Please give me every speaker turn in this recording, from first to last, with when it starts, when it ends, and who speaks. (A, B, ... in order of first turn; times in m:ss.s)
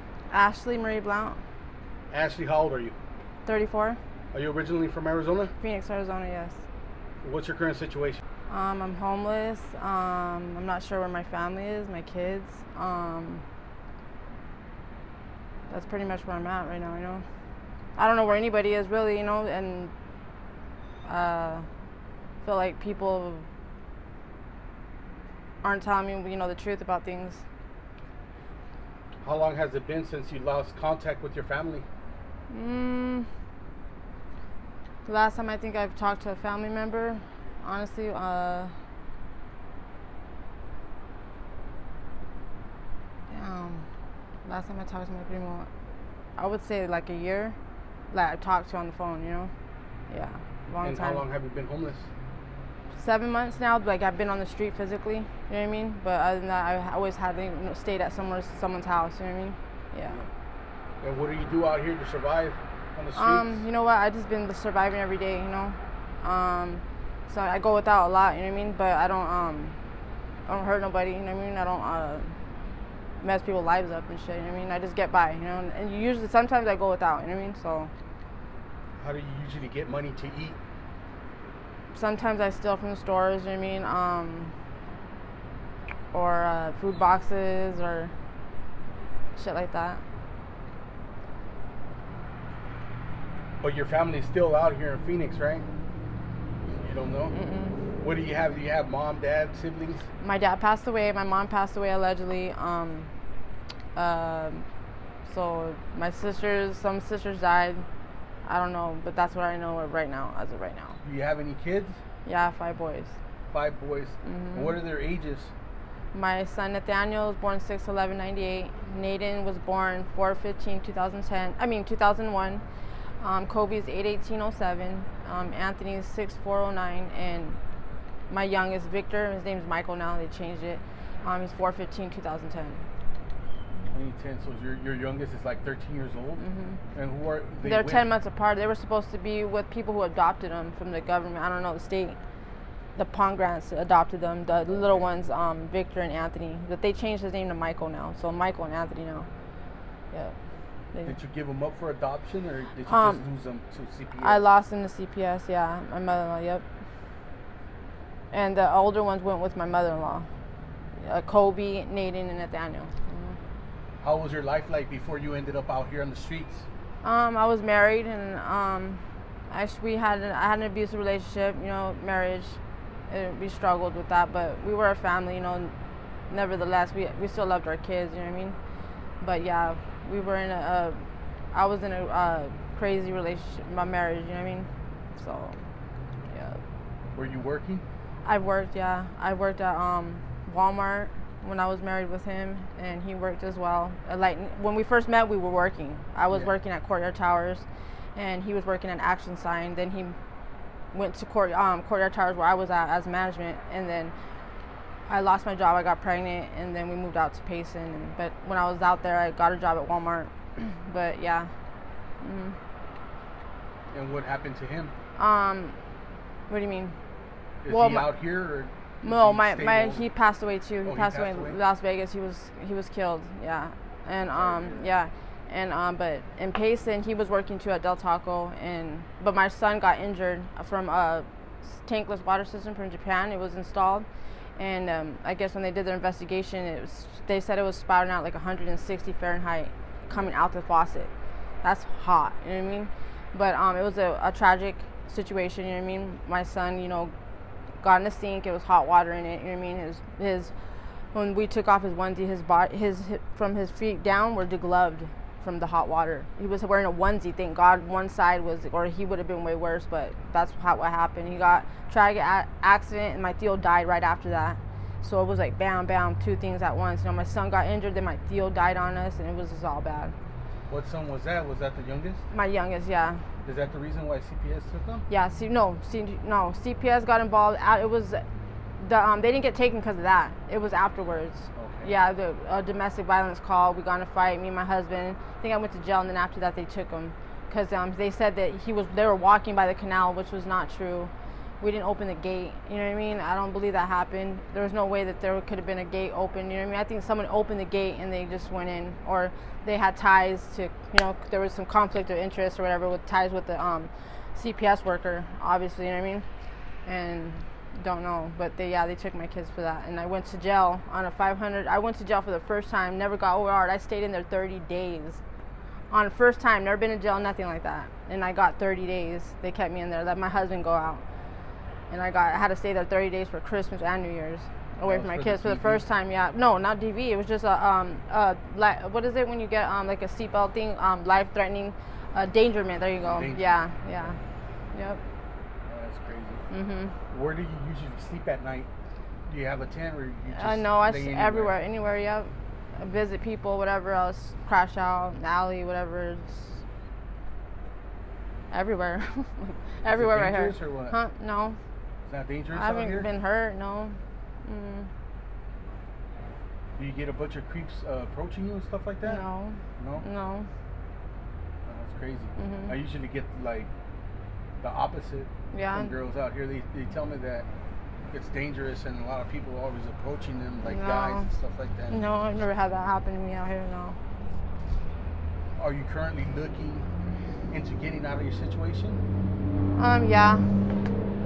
0:00.3-0:01.4 A
0:02.1-0:02.9 B
0:03.4-0:04.0 A
0:04.3-0:05.5 B
0:05.6-0:06.6 A
0:07.2-0:08.2 B
0:08.5-0:13.4 A
0:15.7-0:17.2 A
0:18.0-0:19.9 A
0:21.0-0:21.7 A
0:22.4-0:23.5 A
0:25.6-0:27.4 A
0:29.2-0:31.8 B
0:32.5-0:33.3 A
0:35.0-0:38.7 A
0:43.3-0:43.9 A
0:44.4-0:45.7 A
0:46.4-0:47.6 A
0:48.1-0:49.5 A
0:50.1-0:51.2 A
0:50.8-0:52.1 B
0:52.9-1:00.2 A
1:01.0-1:03.6 B
1:03.1-1:09.8 A
1:10.5-1:12.4 A
1:13.2-1:17.9 A
1:19.0-1:20.6 B
1:21.9-1:24.5 A
1:26.1-1:28.1 A
1:29.4-1:30.0 A
1:33.6-1:35.7 B
1:36.6-1:37.4 B
1:37.3-1:37.8 A
1:37.9-1:40.1 B
1:40.2-1:43.1 A
1:43.9-1:44.7 A
1:45.2-1:47.9 A
1:48.4-1:51.0 A
1:51.0-1:52.0 B
1:52.2-1:53.2 A
1:53.5-1:55.5 B
1:54.2-1:54.8 A
1:56.1-2:02.6 A
2:03.2-2:07.6 A
2:08.3-2:12.9 A
2:13.9-2:18.1 B
2:16.4-2:16.8 A
2:17.6-2:22.2 A
2:23.0-2:29.3 A
2:24.7-2:25.1 B
2:30.1-2:30.4 A
2:31.0-2:34.4 B
2:32.8-2:33.3 A
2:34.2-2:36.6 A
2:38.3-2:40.3 A
2:41.0-2:43.4 A
2:44.0-2:46.7 B
2:47.0-2:55.7 A
2:56.3-2:58.6 A
2:59.2-3:05.6 A
3:06.3-3:06.6 A
3:07.1-3:07.8 B
3:08.2-3:20.2 A
3:20.9-3:24.1 A
3:25.1-3:31.5 A
3:32.2-3:32.6 A
3:33.9-3:34.9 B
3:35.2-3:35.8 A
3:36.5-3:37.0 A
3:37.6-3:40.0 B
3:37.7-3:38.1 A
3:39.0-4:01.1 A
3:40.8-3:41.6 B
3:44.3-3:44.9 B
4:01.6-4:07.1 A
4:07.8-4:30.1 A
4:30.7-4:32.2 B
4:32.3-4:33.3 A
4:33.4-4:35.0 B
4:35.1-4:38.2 A
4:38.8-5:06.3 A
4:41.6-4:41.9 B
5:06.8-5:15.2 A
5:15.9-5:21.0 A
5:21.9-5:34.2 A
5:24.8-5:25.8 B
5:33.0-5:34.1 B
5:34.7-5:35.0 A
5:35.7-5:36.4 B
5:36.5-5:37.0 A
5:37.1-5:38.7 B
5:39.3-5:41.6 B
5:40.3-5:46.6 A
5:48.5-5:51.6 A
5:49.9-5:51.0 B
5:52.0-5:53.1 B
5:52.5-5:54.9 A
5:56.8-5:59.2 B
5:59.0-6:00.5 A
5:59.8-6:00.0 B
6:01.6-6:03.7 B
6:02.4-6:02.7 A
6:04.6-6:07.5 B
6:05.5-6:05.9 A
6:08.1-6:12.0 B
6:10.6-6:11.3 A
6:11.9-6:14.0 A
6:15.6-6:16.9 B
6:17.5-6:19.0 B
6:19.8-6:20.8 A